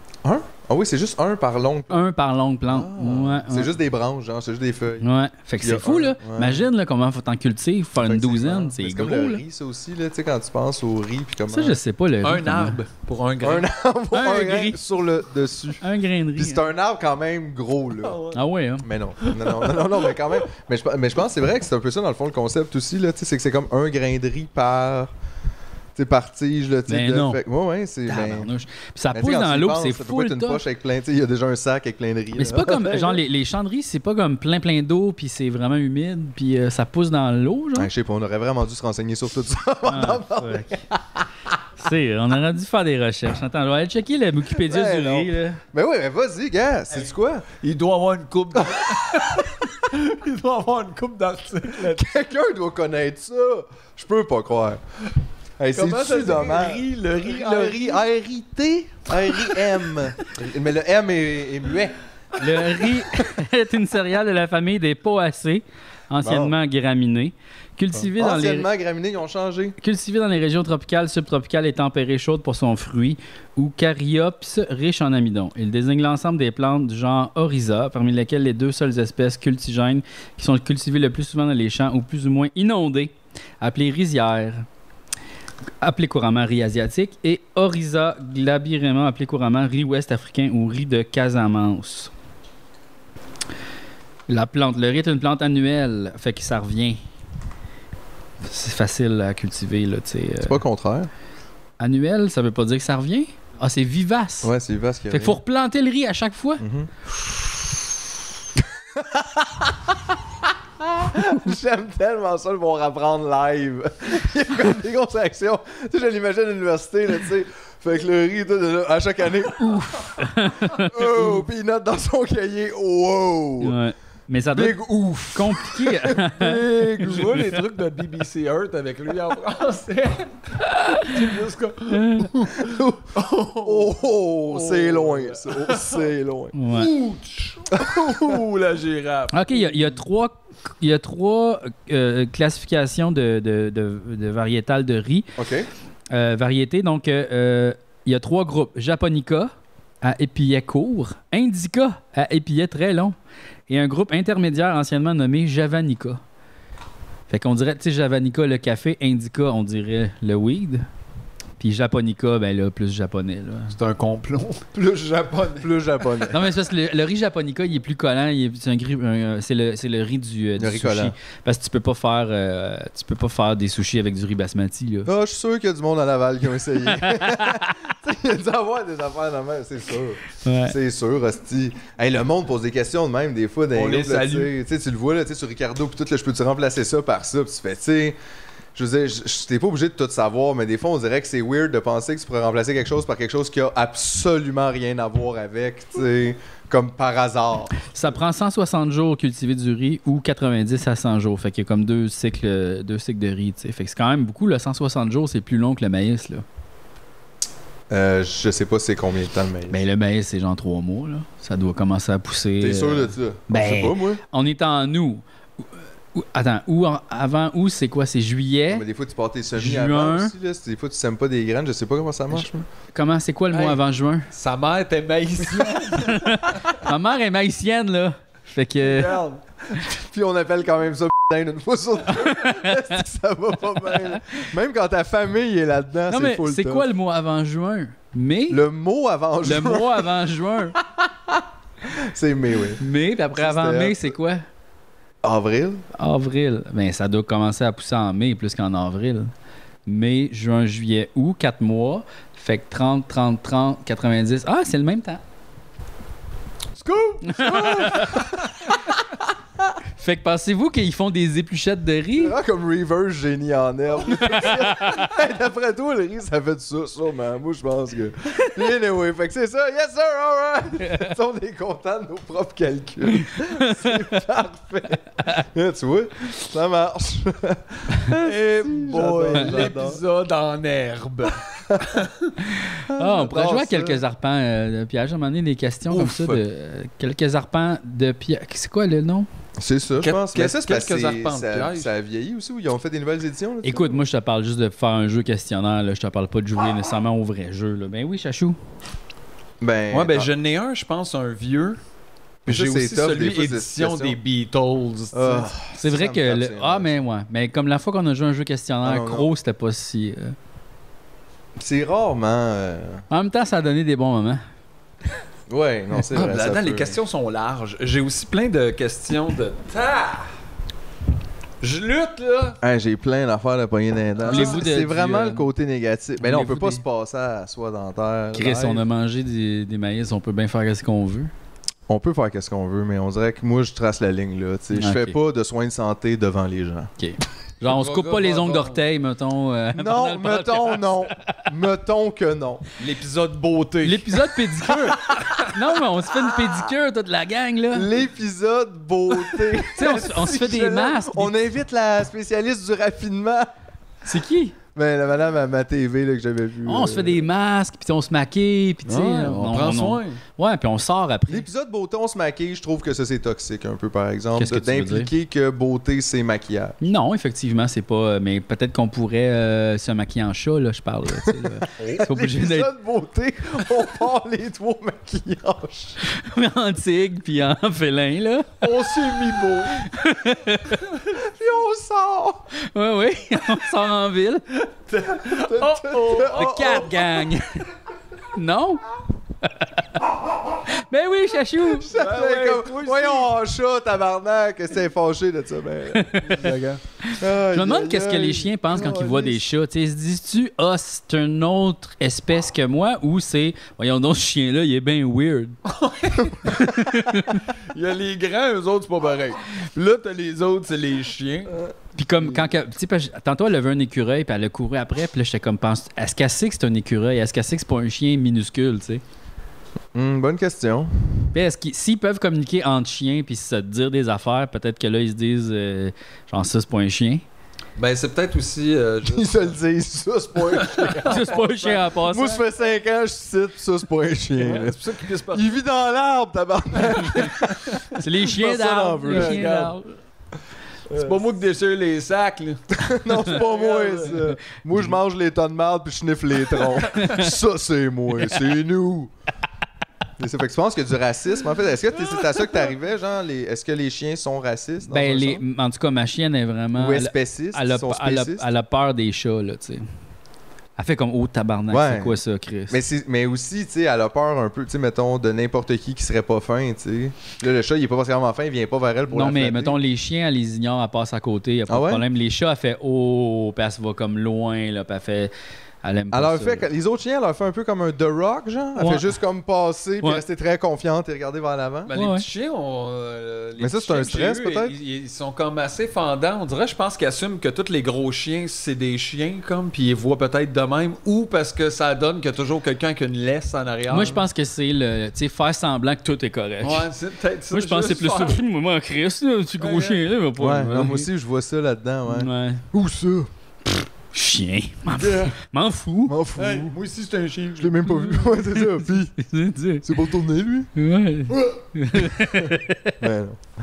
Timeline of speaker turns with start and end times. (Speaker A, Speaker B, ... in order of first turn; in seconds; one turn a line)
Speaker A: 0.2-2.0
Speaker B: 1.9-3.7
Speaker A: 2.7-5.1
Speaker B: 5.0-9.4
Speaker A: 5.6-6.7
Speaker A: 8.0-11.8
Speaker B: 11.5-12.8
Speaker C: 12.2-13.7
Speaker A: 13.4-15.8
Speaker B: 14.1-14.8
Speaker B: 15.8-16.7
Speaker A: 16.4-18.2
Speaker C: 18.0-18.4
Speaker B: 18.3-18.9
Speaker A: 18.8-25.1
Speaker C: 19.2-20.4
Speaker A: 26.0-28.5
Speaker B: 26.9-27.4
Speaker B: 28.1-30.6
Speaker A: 29.1-33.2
Speaker B: 32.4-37.9
Speaker A: 37.8-41.0
Speaker B: 39.9-40.8
Speaker B: 41.8-45.6
Speaker A: 44.5-47.5
Speaker C: 47.6-52.1
Speaker A: 51.8-54.8
Speaker A: 55.6-62.0
Speaker C: 55.7-58.0
Speaker C: 59.3-59.7
Speaker B: 62.4-68.7
Speaker A: 66.2-66.5
Speaker A: 67.9-69.8
Speaker B: 69.8-84.7
Speaker B: 85.8-92.1
Speaker B: 94.3-97.0
Speaker B: 98.4-100.6
Speaker A: 100.4-101.1
Speaker B: 101.8-104.5
Speaker A: 104.4-105.4
Speaker B: 105.1-106.6
Speaker A: 106.6-106.9
Speaker A: 108.6-123.8
Speaker B: 120.2-121.0
Speaker B: 123.6-126.6
Speaker A: 124.5-127.5
Speaker C: 127.0-136.1
Speaker B: 131.9-132.3
Speaker A: 132.5-136.5
Speaker B: 136.6-136.9
Speaker C: 136.7-140.0
Speaker A: 137.8-138.4
Speaker B: 139.3-145.3
Speaker A: 145.4-145.7
Speaker B: 146.1-149.5
Speaker B: 150.0-153.2
Speaker B: 153.7-156.2
Speaker B: 157.3-160.9
Speaker B: 161.6-163.7
Speaker C: 163.7-165.8
Speaker A: 165.6-166.4
Speaker B: 166.3-175.1
Speaker A: 170.6-171.2
Speaker A: 175.1-188.2
Speaker B: 176.8-177.7
Speaker B: 180.4-180.8
Speaker C: 183.8-184.5
Speaker A: 188.8-197.9
Speaker B: 197.9-206.4
Speaker A: 207.9-209.8
Speaker B: 209.7-218.8
Speaker A: 212.6-214.2
Speaker A: 218.7-222.7
Speaker B: 219.6-220.3
Speaker B: 222.9-224.3
Speaker C: 223.5-223.8
Speaker C: 224.3-226.7
Speaker B: 226.0-229.2
Speaker C: 228.8-229.8
Speaker A: 229.9-236.9
Speaker B: 232.2-232.9
Speaker B: 236.1-238.6
Speaker A: 238.5-240.1
Speaker B: 239.4-240.8
Speaker A: 240.8-242.8
Speaker B: 242.8-244.4
Speaker A: 243.3-244.2
Speaker A: 245.2-245.8
Speaker B: 246.0-249.3
Speaker B: 249.9-255.2
Speaker C: 256.8-258.3
Speaker B: 257.3-258.2
Speaker A: 257.4-258.2
Speaker B: 260.0-262.4
Speaker A: 262.2-280.0
Speaker B: 264.1-265.1
Speaker B: 273.1-274.2
Speaker C: 278.1-282.2
Speaker A: 281.7-282.0
Speaker A: 282.9-284.0
Speaker B: 282.9-289.3
Speaker C: 285.9-286.4
Speaker A: 289.6-294.0
Speaker C: 290.0-291.9
Speaker B: 293.6-298.6
Speaker A: 299.6-300.3
Speaker C: 299.9-301.8
Speaker A: 302.5-304.2
Speaker C: 302.5-305.5
Speaker A: 305.1-306.9
Speaker B: 305.8-310.4
Speaker A: 308.8-309.3
Speaker A: 311.6-313.0
Speaker B: 313.1-314.4
Speaker A: 315.5-317.0
Speaker C: 316.1-320.3
Speaker C: 321.6-322.6
Speaker A: 322.6-328.8
Speaker C: 324.3-324.6
Speaker B: 324.3-325.5
Speaker B: 326.2-326.8
Speaker B: 328.3-331.3
Speaker A: 331.9-336.9
Speaker B: 334.7-335.2
Speaker B: 337.0-341.0
Speaker C: 337.6-338.8
Speaker A: 339.8-342.6
Speaker C: 342.8-344.3
Speaker B: 343.8-347.9
Speaker C: 345.0-345.4
Speaker A: 347.7-353.5
Speaker B: 349.8-351.3
Speaker B: 354.1-354.6
Speaker A: 354.8-357.2
Speaker B: 356.6-361.5
Speaker C: 358.9-360.2
Speaker A: 361.3-366.8
Speaker B: 364.4-365.1
Speaker B: 366.8-372.7
Speaker A: 371.1-376.0
Speaker C: 371.8-372.0
Speaker B: 376.1-378.6
Speaker C: 378.6-379.9
Speaker B: 379.9-380.8
Speaker A: 381.1-382.4
Speaker B: 382.7-384.4
Speaker C: 384.9-386.9
Speaker A: 385.2-387.0
Speaker B: 386.2-387.6
Speaker B: 388.3-388.8
Speaker B: 389.4-389.7
Speaker B: 390.9-391.9
Speaker A: 391.7-396.3
Speaker C: 391.9-393.3
Speaker B: 395.9-396.4
Speaker C: 396.2-396.8
Speaker B: 397.0-405.6
Speaker A: 397.2-399.5
Speaker C: 405.7-411.6
Speaker B: 406.4-407.4
Speaker B: 412.0-419.0
Speaker A: 419.9-421.3
Speaker B: 421.3-427.2
Speaker C: 427.8-429.5
Speaker A: 429.1-431.3
Speaker C: 430.5-431.9
Speaker B: 431.1-432.4
Speaker A: 432.1-437.7
Speaker C: 434.4-435.5
Speaker C: 437.0-437.8
Speaker B: 438.0-439.9
Speaker A: 438.2-439.5
Speaker C: 439.1-439.8
Speaker A: 440.9-441.2
Speaker C: 440.9-442.7
Speaker A: 442.8-449.1
Speaker C: 443.3-444.3
Speaker B: 446.9-447.3
Speaker A: 450.2-455.4
Speaker B: 454.9-459.8
Speaker A: 456.8-458.5
Speaker B: 460.8-462.8
Speaker A: 461.7-469.8
Speaker B: 469.1-475.3
Speaker A: 471.7-472.0
Speaker B: 475.8-476.7
Speaker A: 476.1-481.9
Speaker B: 478.8-479.1
Speaker C: 481.9-494.2
Speaker B: 481.9-482.2
Speaker A: 483.6-484.7
Speaker B: 493.9-496.9
Speaker C: 496.6-498.4
Speaker B: 497.5-501.1
Speaker C: 499.6-500.1
Speaker A: 500.4-503.3
Speaker B: 502.1-502.6
Speaker B: 504.1-506.2
Speaker C: 505.0-505.4
Speaker A: 506.1-506.7
Speaker C: 506.4-508.0
Speaker A: 507.6-509.2
Speaker B: 508.1-509.9
Speaker A: 509.8-510.7
Speaker B: 510.8-513.0
Speaker A: 511.9-513.4